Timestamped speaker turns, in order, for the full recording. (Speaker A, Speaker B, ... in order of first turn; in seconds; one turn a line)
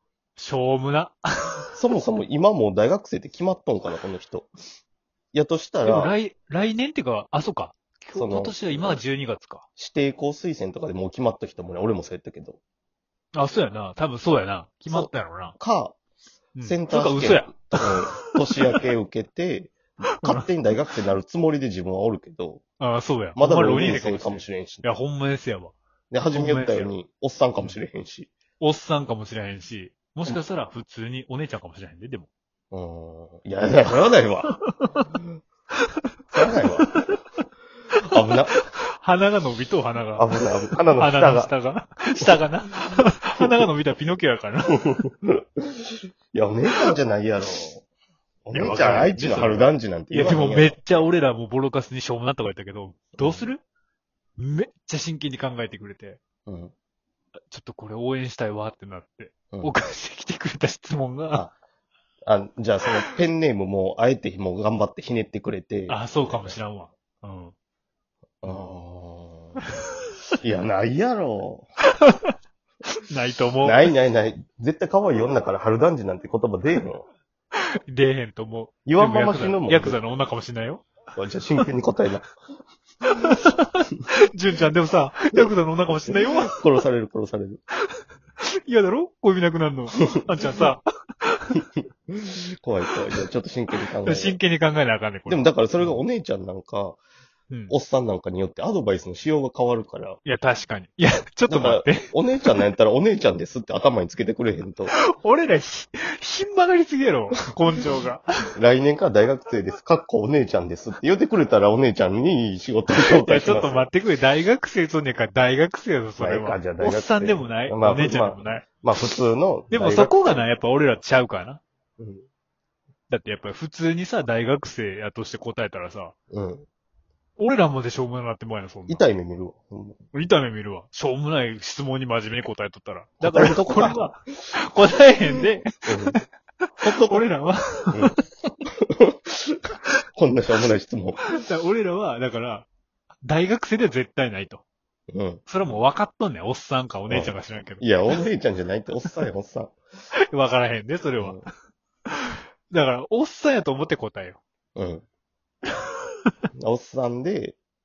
Speaker A: 0.4-1.7
Speaker B: 1.7-4.5
Speaker B: 5.3-6.2
Speaker A: 5.8-9.6
Speaker B: 8.1-9.0
Speaker B: 9.8-12.6
Speaker A: 13.3-15.6
Speaker B: 14.9-16.0
Speaker A: 16.6-18.8
Speaker B: 16.6-22.6
Speaker A: 22.8-25.8
Speaker B: 23.4-24.9
Speaker B: 26.1-28.3
Speaker A: 26.3-26.9
Speaker A: 28.6-32.3
Speaker B: 32.7-34.5
Speaker A: 34.5-35.1
Speaker B: 36.3-37.0
Speaker B: 38.1-38.6
Speaker A: 39.0-40.3
Speaker B: 40.2-41.5
Speaker A: 41.0-44.9
Speaker B: 44.9-47.9
Speaker B: 48.5-50.8
Speaker A: 48.5-53.6
Speaker B: 53.2-53.5
Speaker A: 54.4-56.2
Speaker B: 56.5-56.7
Speaker A: 57.5-61.5
Speaker B: 62.3-66.6
Speaker A: 65.9-67.5
Speaker B: 68.4-69.6
Speaker B: 70.4-71.7
Speaker A: 73.1-73.9
Speaker B: 73.6-77.1
Speaker A: 77.9-80.9
Speaker B: 78.9-80.0
Speaker B: 81.2-82.3
Speaker A: 83.1-86.6
Speaker B: 86.1-87.6
Speaker A: 88.7-91.6
Speaker B: 92.1-94.4
Speaker A: 94.0-96.0
Speaker B: 95.3-97.0
Speaker A: 97.5-97.8
Speaker B: 97.7-100.2
Speaker A: 100.2-102.1
Speaker B: 101.5-104.9
Speaker A: 105.0-108.2
Speaker B: 108.5-113.9
Speaker A: 113.0-118.8
Speaker B: 116.2-120.4
Speaker A: 119.7-121.6
Speaker B: 122.0-122.2
Speaker A: 123.1-126.1
Speaker B: 126.3-126.7
Speaker A: 127.4-129.1
Speaker B: 128.9-130.0
Speaker A: 130.1-138.1
Speaker B: 133.2-134.5
Speaker B: 135.4-136.2
Speaker B: 136.8-137.3
Speaker B: 138.8-139.6
Speaker B: 140.2-141.3
Speaker A: 141.3-142.7
Speaker A: 143.2-144.6
Speaker B: 145.1-145.8
Speaker A: 145.5-148.3
Speaker B: 147.1-149.8
Speaker A: 150.3-151.4
Speaker B: 151.2-151.5
Speaker A: 152.1-154.4
Speaker B: 154.8-155.0
Speaker B: 156.6-157.6